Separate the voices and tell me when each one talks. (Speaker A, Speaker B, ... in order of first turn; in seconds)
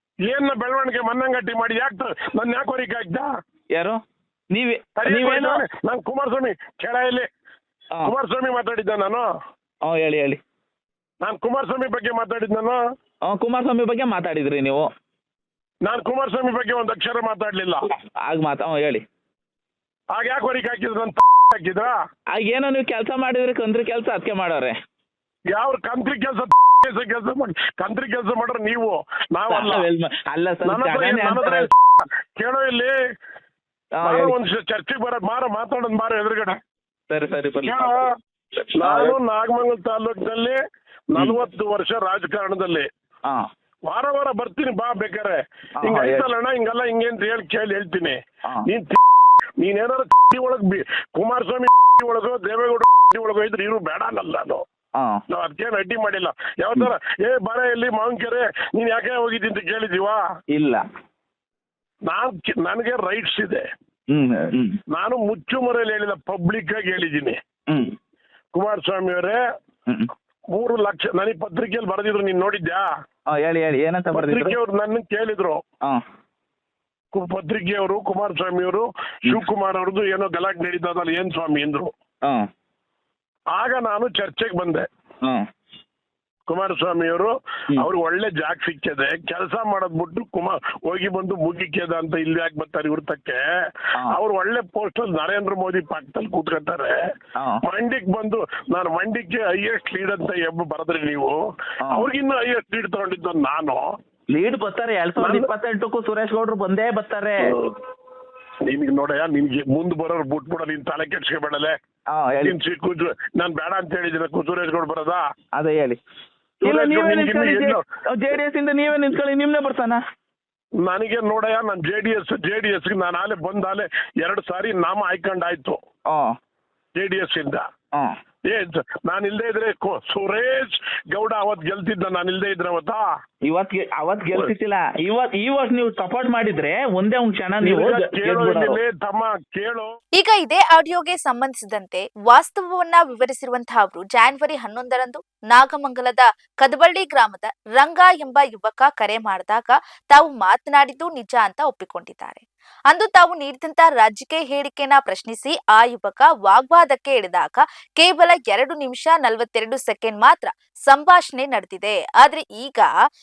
Speaker A: 0.2-3.3, 5.0-7.3, 8.0-9.2, 11.2-12.8, 15.8-17.9, 20.1-21.9, 25.5-29.9, 30.6-33.0, 34.0-36.6, 37.6-38.1, 38.8-40.6, 41.1-42.9, 43.9-49.0, 49.6-54.6, 55.3-60.2, 62.1-63.7, 64.9-67.4, 68.5-69.4, 70.5-72.9, 74.1-75.6, 77.1-81.9, 83.5-84.8, 86.5-93.4, 94.0-96.9, 97.6-101.4, 101.9-103.9, 105.2-105.5, 107.4-107.7, 108.7-111.7, 112.4-115.2, 116.6-117.8, 120.8-125.8, 127.0-127.7, 128.5-133.0, 137.6-139.9
Speaker B: 3.7-4.0, 4.5-5.6, 9.8-10.4, 13.2-14.9, 18.2-19.0, 22.4-24.8, 29.5-31.7, 34.0-34.4, 37.1-38.0, 38.6-39.2, 45.8-46.3, 60.5-60.8, 64.1-64.8, 73.3-74.6, 101.8-102.1, 104.3-107.5, 112.1-112.6, 115.6-116.0, 116.6-120.0, 133.4-138.8
Speaker C: 140.2-162.9